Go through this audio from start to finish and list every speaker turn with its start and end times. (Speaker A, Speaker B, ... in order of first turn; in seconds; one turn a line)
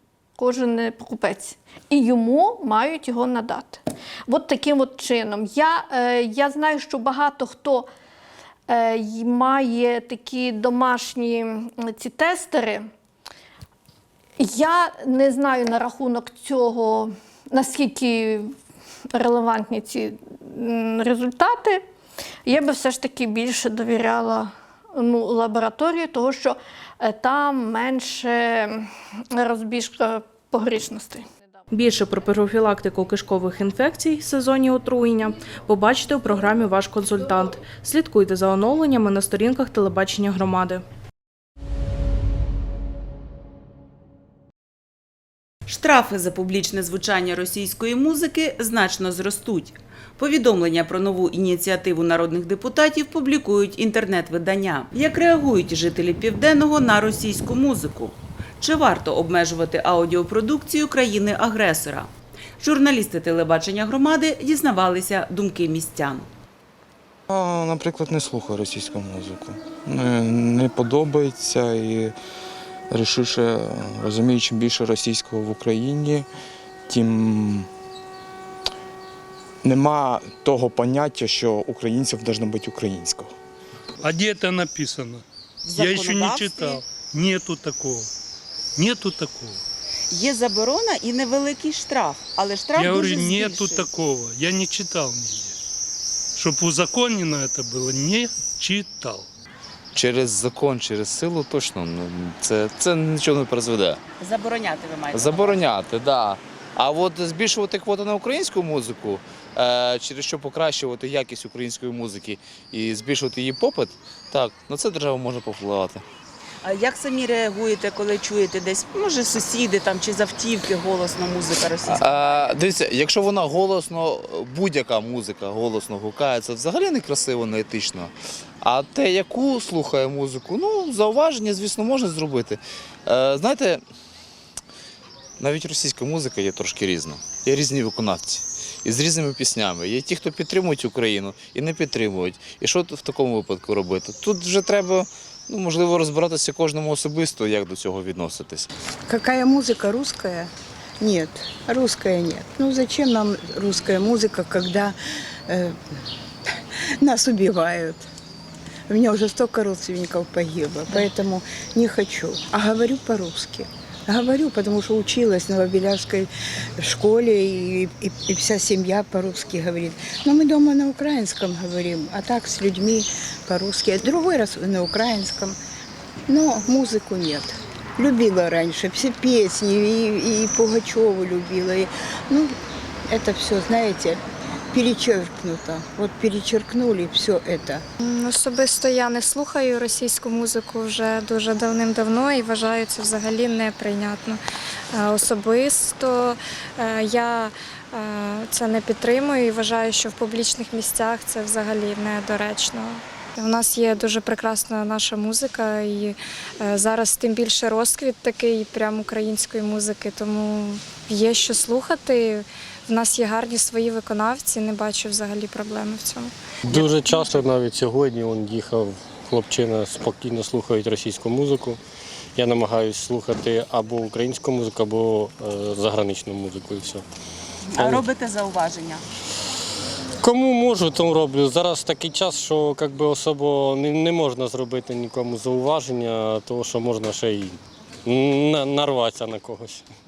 Speaker A: 0.4-7.9
Speaker A: 8.7-12.9
Speaker A: 14.4-18.5
Speaker A: 19.1-21.8
Speaker A: 22.4-31.2
Speaker B: 31.7-40.8
Speaker C: 45.7-66.3
Speaker D: 67.3-72.2
Speaker D: 72.9-76.3
Speaker D: 76.9-77.7
Speaker D: 79.6-83.3
Speaker E: 84.0-85.2
Speaker C: 85.6-86.8
Speaker E: 85.8-88.1
Speaker E: 88.8-89.5
Speaker C: 90.1-93.9
Speaker E: 92.8-95.5
Speaker E: 96.4-99.2
Speaker F: 99.9-104.0
Speaker C: 104.2-105.8
Speaker F: 105.1-116.0
Speaker C: 116.6-122.6
Speaker F: 121.8-133.8
Speaker F: 135.4-148.7
Speaker G: 149.1-154.9
Speaker G: 155.5-155.7
Speaker G: 157.0-158.0
Speaker G: 158.9-175.6
Speaker G: 176.3-182.5
Speaker G: 183.1-184.2
Speaker G: 184.7-187.8
Speaker H: 188.0-194.4
Speaker H: 194.9-217.3
Speaker I: 216.7-221.8
Speaker I: 222.3-227.0
Speaker C: 227.7-229.0
Speaker I: 227.8-228.1
Speaker I: 230.2-239.9